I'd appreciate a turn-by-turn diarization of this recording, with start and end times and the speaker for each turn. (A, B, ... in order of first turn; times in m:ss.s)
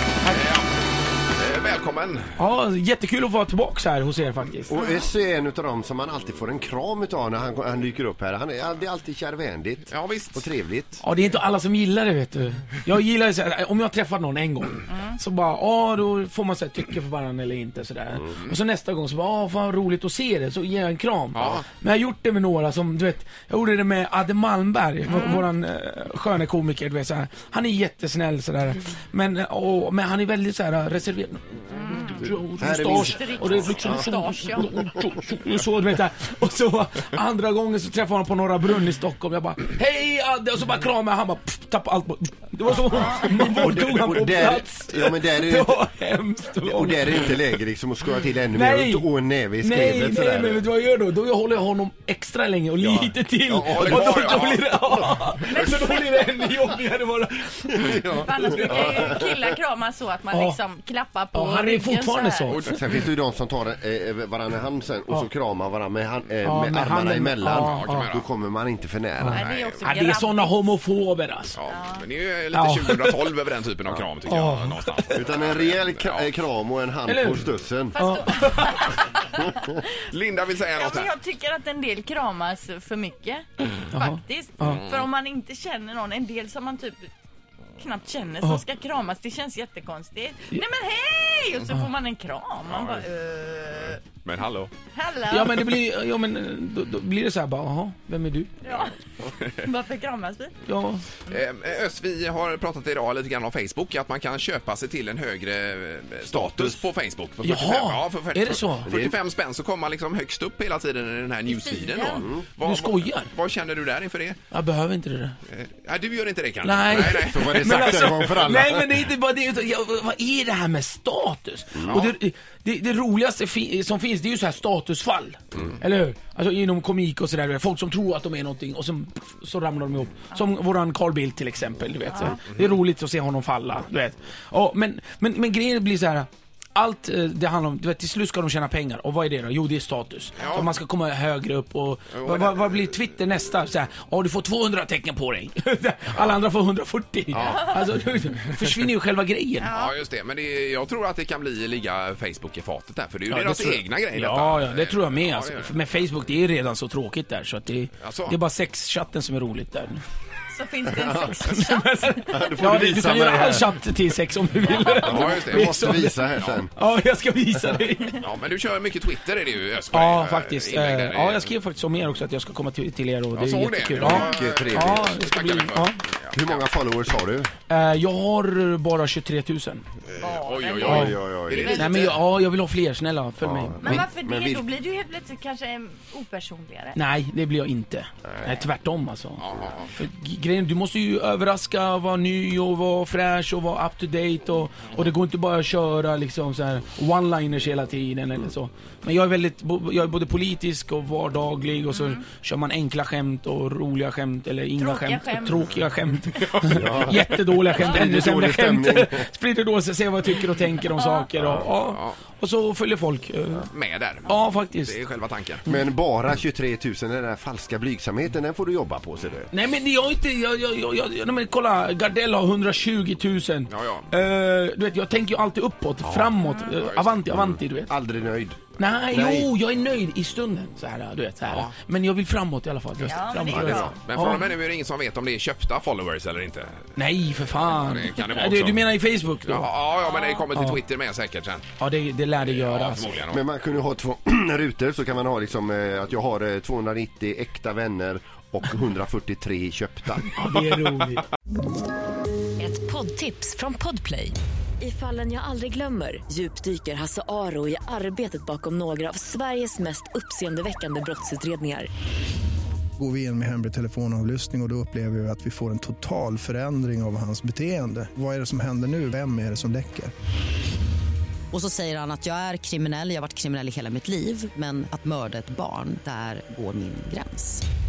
0:00.3-0:00.7 A
0:01.4-0:02.3 A
0:02.4-0:04.7 B
0:04.7-0:11.0 C
0:09.9-0:10.4 A
0:11.0-0:31.4 B
0:21.4-0:21.6 A
0:25.1-0:25.5 D
0:31.7-0:34.8 D
0:32.1-0:47.3 B
0:32.6-0:34.0 C
0:42.9-0:43.4 D
0:43.2-0:45.8 C
0:46.6-0:50.6 C
0:48.5-0:49.1 B
0:49.6-0:59.1 B
0:52.8-0:54.5 C
0:53.6-0:54.8 A
0:58.1-1:02.6 D
0:58.6-0:59.4 C
1:00.3-1:00.6 B
1:01.3-1:02.6 B
1:02.5-1:02.8 A
1:02.7-1:09.4 C
1:06.4-1:08.1 B
1:07.5-1:08.3 A
1:09.2-1:11.6 B
1:09.3-1:10.8 D
1:09.4-1:09.8 A
1:11.6-1:16.3 A
1:11.6-1:12.1 D
1:12.5-1:13.4 B
1:14.2-1:15.3 B
1:15.1-1:18.0 C
1:17.1-1:19.0 B
1:18.0-1:19.9 D
1:19.3-1:19.8 C
1:20.0-1:21.1 A
1:20.7-1:27.1 D
1:23.9-1:24.8 B
1:24.7-1:25.0 A
1:27.8-1:34.0 D
1:32.7-1:33.1 A
1:33.6-1:34.7 A
1:34.9-1:35.5 D
1:35.3-1:38.5 B
1:38.6-1:38.9 D
1:38.7-1:39.7 A
1:39.6-1:40.5 D
1:40.6-1:41.0 B
1:41.3-1:54.4 A
1:46.3-1:46.8 C
1:47.4-1:48.9 B
1:48.9-1:49.2 C
1:51.5-1:52.3 D
1:52.1-1:52.4 C
1:52.6-1:53.3 B
1:54.5-1:55.4 B
1:55.5-1:58.3 A
1:56.6-2:29.7 B
1:57.2-1:59.0 C
2:01.9-2:02.1 A
2:12.1-2:12.4 D
2:20.4-2:20.7 A
2:22.1-2:22.9 A
2:27.3-2:27.6 A
2:29.6-2:30.0 D
2:29.6-2:35.7 A
2:33.3-2:40.0 B
2:38.0-2:38.4 A
2:40.5-2:42.5 D
2:40.9-2:41.4 C
2:41.4-2:48.2 B
2:42.3-2:43.8 C
2:44.9-2:46.7 C
2:45.0-2:45.8 A
2:48.2-2:51.5 A
2:49.9-2:56.0 B
2:53.3-2:56.7 A
2:54.0-2:55.1 C
2:56.3-2:57.5 C
2:57.7-2:59.8 B
3:00.1-3:02.2 A
3:00.2-3:02.0 D
3:00.8-3:01.7 C
3:00.8-3:04.1 B
3:03.4-3:04.6 C
3:03.8-3:07.0 D
3:07.0-3:33.7 B
3:09.4-3:09.9 A
3:21.9-3:22.2 D
3:24.8-3:25.7 D
3:26.7-3:29.3 C
3:30.9-3:31.3 D
3:31.4-3:31.7 C
3:31.7-3:32.2 A
3:33.7-3:35.6 A
3:34.3-3:35.0 B
3:35.7-3:39.5 C
3:39.5-3:47.9 B
3:43.7-3:44.1 A
3:46.0-3:46.3 C
3:46.4-3:46.8 D
3:46.7-3:47.2 A
3:47.3-3:48.6 C
3:48.8-3:54.5 B
3:49.1-3:49.5 C
3:51.5-3:51.7 A
3:53.0-3:54.0 D
3:53.5-3:54.0 C
3:53.9-3:56.9 A
3:57.0-3:59.7 B
3:57.6-3:58.8 A
3:59.5-4:01.7 A
4:00.0-4:00.5 D
4:01.8-4:03.2 B
4:02.4-4:03.4 A
4:03.3-4:10.3 C
4:10.4-4:11.2 B
4:12.6-4:21.9 E
4:23.0-4:30.1 F
4:31.5-4:37.6 G